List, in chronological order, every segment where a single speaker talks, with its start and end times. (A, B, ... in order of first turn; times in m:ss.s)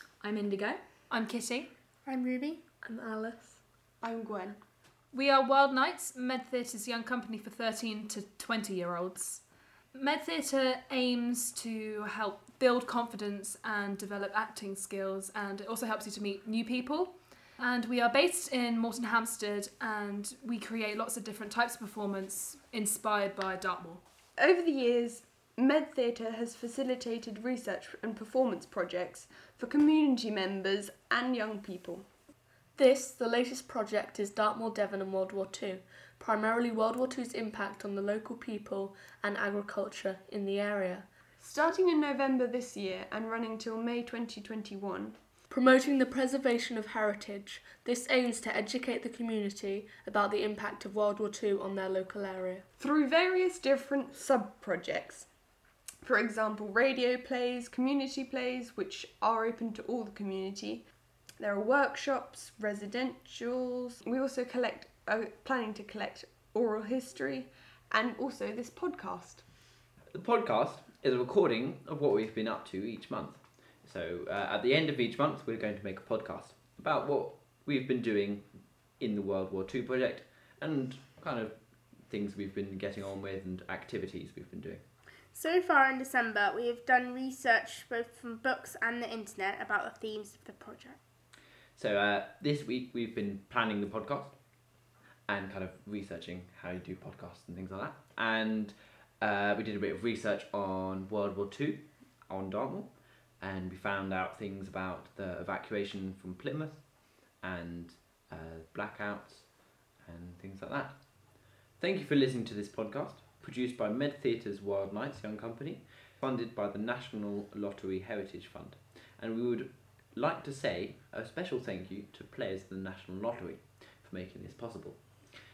0:00.2-0:01.7 A
0:02.0-0:02.6 B
0:02.8-0:03.6 C
0:04.0-0:04.6 D
0:05.1-0:24.0 A
0:24.4-0:32.1 D
0:32.8-0:41.1 C
0:41.4-0:45.2 D
0:45.5-0:52.6 C
0:52.8-0:55.3 D
0:56.0-1:09.8 D
1:10.1-1:24.8 E
1:25.3-1:31.0 B
1:31.8-1:34.7 E
1:35.3-2:05.2 E